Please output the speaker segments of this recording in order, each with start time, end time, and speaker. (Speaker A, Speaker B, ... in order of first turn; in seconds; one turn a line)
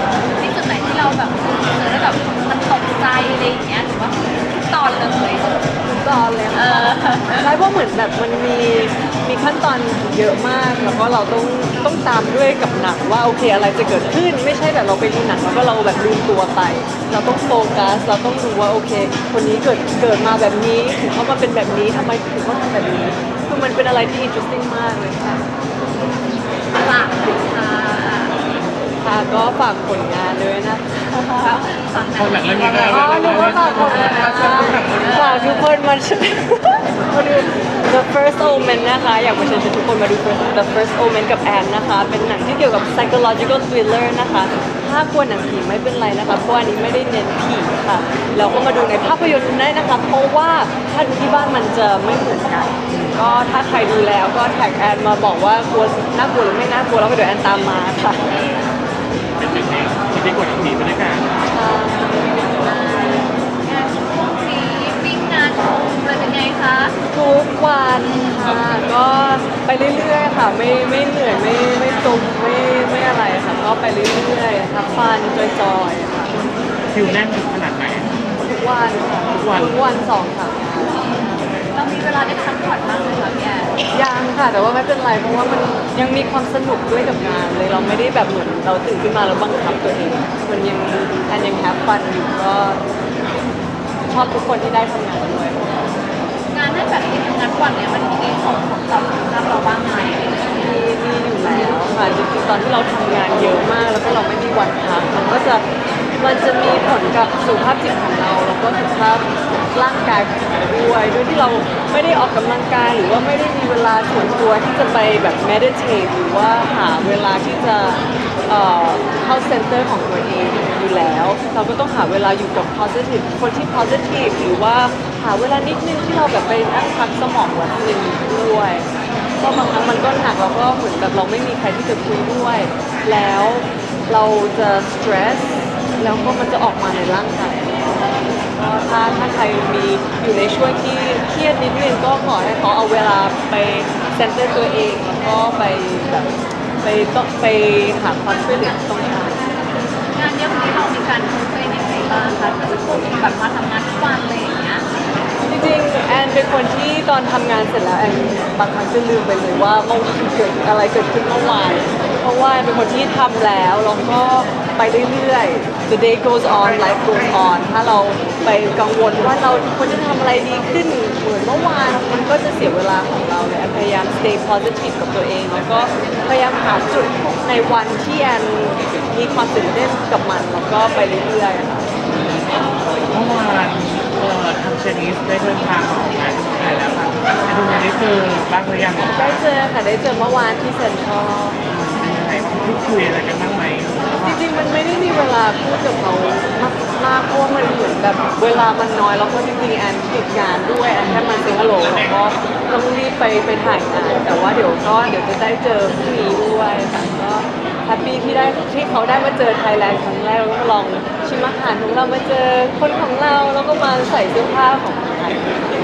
Speaker A: 0.3-5.6
Speaker B: 5.9-25.4
Speaker A: 6.5-7.5
Speaker A: 26.8-28.4
Speaker B: 29.0-31.6
Speaker A: 31.4-35.7
Speaker C: 32.2-34.2
Speaker B: 32.8-58.2
Speaker C: 58.3-58.7
Speaker C: 59.4-61.4
Speaker B: 61.5-62.4
Speaker A: 62.6-66.9
Speaker B: 67.1-76.3
Speaker C: 76.9-78.1
Speaker B: 78.5-81.0
Speaker C: 79.3-79.8
Speaker A: 81.7-83.7
Speaker B: 83.9-92.8
Speaker B: 94.1-95.9
Speaker A: 96.5-100.5
Speaker B: 100.5-105.6
Speaker B: 106.2-128.9
Speaker B: 129.4-137.8
Speaker B: 138.6-146.3
Speaker B: 146.8-149.4
Speaker A: 150.1-154.9
Speaker B: 155.4-181.9
Speaker C: 182.2-189.4
Speaker B: 189.1-191.6
Speaker C: 191.7-194.4
Speaker B: 194.2-215.7
Speaker C: 201.4-202.2